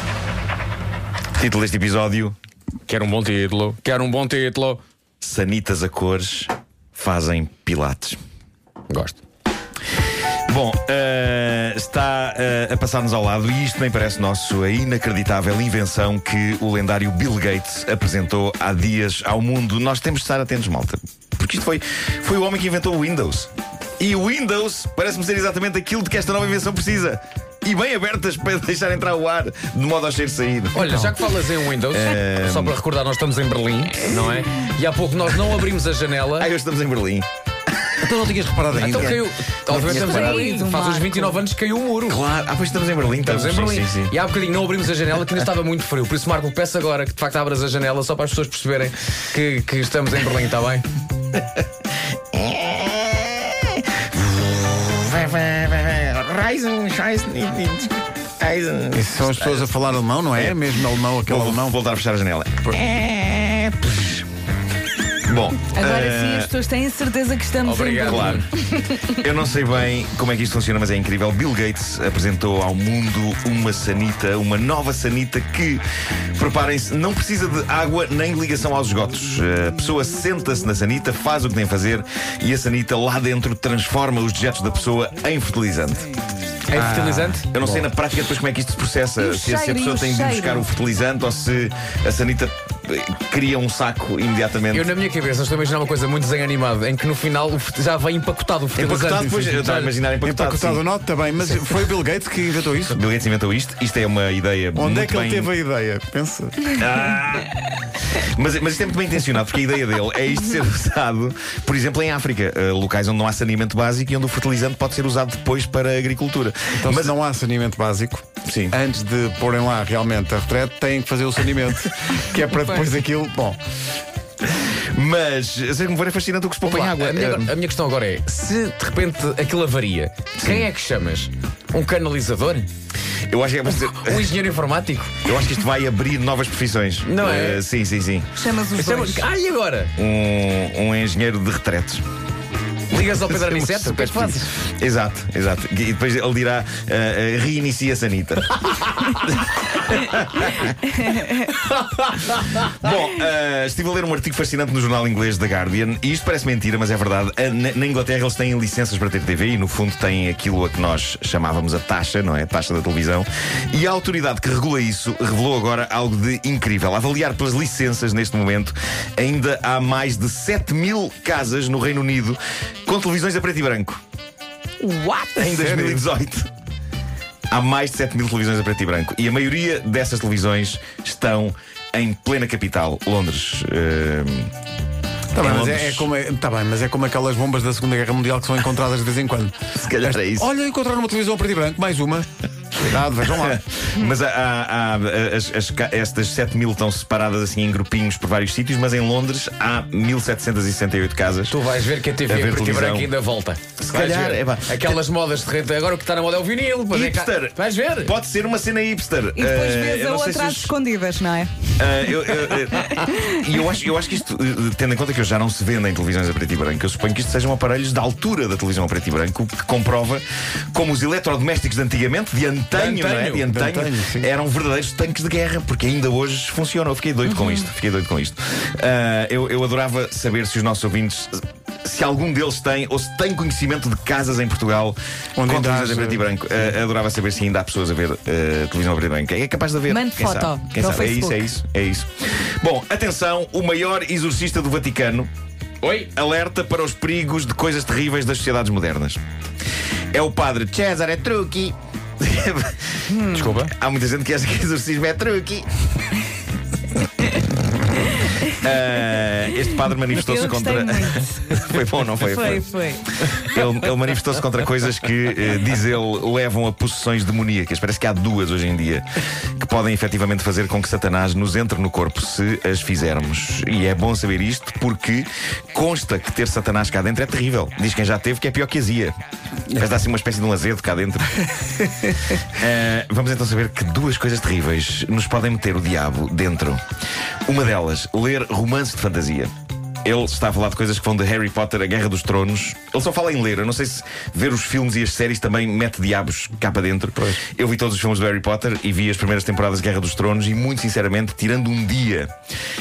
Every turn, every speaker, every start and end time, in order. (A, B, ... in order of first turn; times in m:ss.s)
0:01.4-0:02.3 A
0:02.9-0:04.8 B
0:05.2-0:08.2 A
0:08.9-0:09.2 B
0:10.5-0:30.9 A
0:30.7-0:36.5 B
0:30.9-0:31.1 C
0:31.9-0:32.8 A
0:36.4-0:37.3 A
0:38.0-0:40.0 C
0:38.7-0:42.2 B
0:38.8-0:40.4 A
0:40.0-0:41.4 D
0:42.1-0:44.1 A
0:43.2-0:50.9 B
0:52.3-0:59.7 A
0:58.9-1:01.8 C
1:00.4-1:04.2 A
1:05.3-1:06.5 A
1:05.7-1:09.1 D
1:07.6-1:08.5 B
1:08.0-1:08.4 A
1:09.0-1:15.8 A
1:16.3-1:26.1 A
1:26.6-1:27.5 B
1:26.7-1:27.9 C
1:27.5-1:34.9 A
1:29.2-1:30.7 D
1:34.7-1:40.0 B
1:38.8-1:40.8 A
1:40.2-1:43.0 C
1:42.9-1:45.5 A
1:44.7-1:46.7 C
1:46.7-1:57.1 A
1:56.8-2:03.6 C
1:58.4-1:58.8 A
2:04.5-2:07.5 A
2:06.6-2:12.7 B
2:10.4-2:10.7 A
2:13.3-2:14.4 A
2:13.7-2:15.3 B
2:15.2-2:18.3 A
2:17.0-2:17.6 B
2:18.4-2:19.2 D
2:18.7-2:19.9 B
2:20.0-2:22.0 A
2:22.9-2:24.5 B
2:23.3-2:24.4 C
2:23.8-2:31.5 A
2:31.6-2:32.7 B
2:32.6-2:54.0 A
2:55.3-2:56.5 A
2:55.4-2:56.0 C
2:57.5-3:04.5 A
3:05.3-3:13.6 C
3:05.4-3:06.1 A
3:09.7-3:10.5 A
3:13.3-3:21.6 A
3:21.5-3:28.1 B
3:22.2-3:23.1 A
3:23.8-3:24.9 A
3:26.9-3:30.8 A
3:29.3-3:33.4 D
3:31.8-4:05.3 A
3:42.7-3:43.5 B
3:43.4-3:44.3 C
3:55.4-3:56.2 C
3:59.9-4:01.4 D
4:05.8-4:06.1 B
4:06.1-4:09.2 A
4:10.1-4:15.7 A
4:13.1-4:13.4 D
4:13.3-4:13.7 B
4:18.2-4:18.5 D
4:18.5-4:29.0 A
4:20.1-4:21.5 D
4:22.0-4:23.6 D
4:29.6-4:39.1 A
4:39.7-4:41.8 A
4:42.4-4:46.8 A
4:47.5-4:49.5 A
4:50.0-5:02.3 A
4:57.2-4:57.4 C